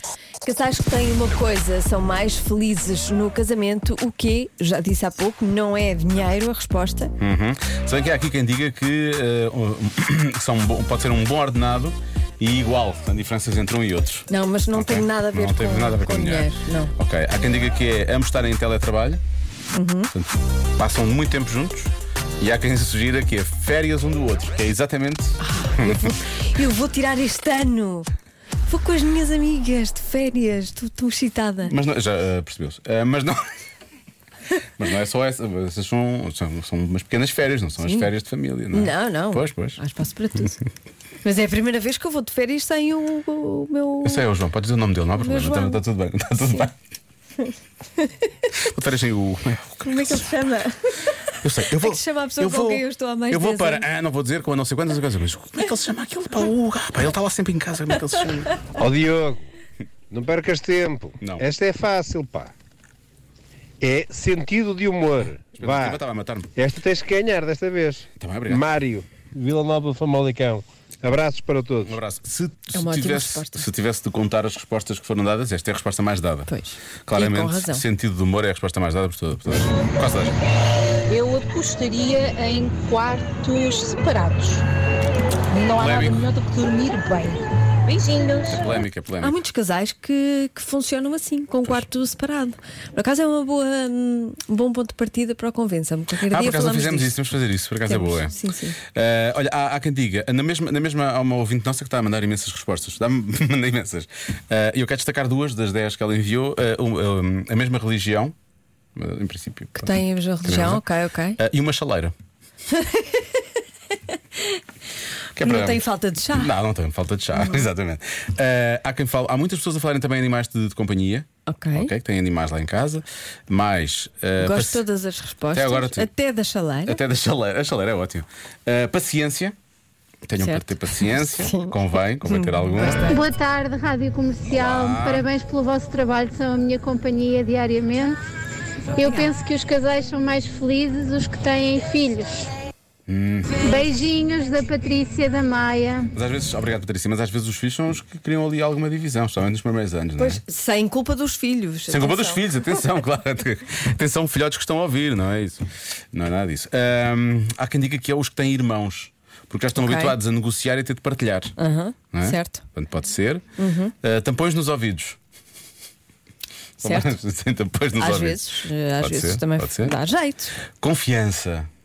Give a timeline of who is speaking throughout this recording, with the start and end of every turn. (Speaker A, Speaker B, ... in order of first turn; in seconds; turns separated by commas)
Speaker A: 0.4-7.1, Speaker B: 7.2-19.2, Speaker A: 14.3-16.9, Speaker A: 19.7-20.1, Speaker B: 20.1-26.2, Speaker A: 25.5-28.1, Speaker A: 28.7-31.7, Speaker B: 31.6-33.4, Speaker B: 34.8-39.8, Speaker A: 37.8-38.1, Speaker A: 38.7-40.6, Speaker A: 41.2-44.2, Speaker B: 44.0-46.7, Speaker A: 45.2-45.8, Speaker A: 46.4-46.7, Speaker A: 47.4-48.4, Speaker B: 48.6-50.3, Speaker A: 49.9-53.9, Speaker B: 51.4-58.6, Speaker C: 58.8-59.5, Speaker C: 60.1-62.5, Speaker B: 61.2-61.5, Speaker C: 63.8-66.0, Speaker B: 65.5-66.5, Speaker C: 66.6-72.0, Speaker B: 68.2-68.7, Speaker B: 71.8-76.5, Speaker A: 72.7-73.7, Speaker A: 76.5-77.8, Speaker B: 77.0-80.4, Speaker D: 81.1-84.7, Speaker D: 85.5-88.6, Speaker B: 85.8-86.3, Speaker B: 88.5-89.4, Speaker A: 89.2-97.2, Speaker B: 96.3-98.3, Speaker A: 97.9-98.8, Speaker B: 98.9-108.3, Speaker B: 109.0-110.8, Speaker A: 109.8-111.4, Speaker B: 111.4-112.1, Speaker A: 112.8-113.4, Speaker A: 114.1-114.6, Speaker B: 115.4-124.8, Speaker A: 115.4-116.5, Speaker A: 117.4-117.7, Speaker A: 121.5-121.9, Speaker A: 124.4-127.0, Speaker B: 125.5-126.1, Speaker B: 126.8-129.6, Speaker B: 130.3-133.2, Speaker A: 130.4-133.2, Speaker E: 133.1-138.2, Speaker B: 134.5-135.3, Speaker A: 138.9-139.4, Speaker E: 139.0-142.3, Speaker B: 143.1-143.8, Speaker E: 143.6-146.1, Speaker B: 146.1-150.4, Speaker A: 150.2-152.6, Speaker B: 151.9-161.5, Speaker A: 159.8-160.2, Speaker A: 161.6-162.6, Speaker B: 162.1-163.4, Speaker A: 163.6-163.9, Speaker B: 164.0-165.2, Speaker B: 166.8-170.0, Speaker A: 166.8-167.2, Speaker A: 168.0-170.6, Speaker B: 170.8-171.7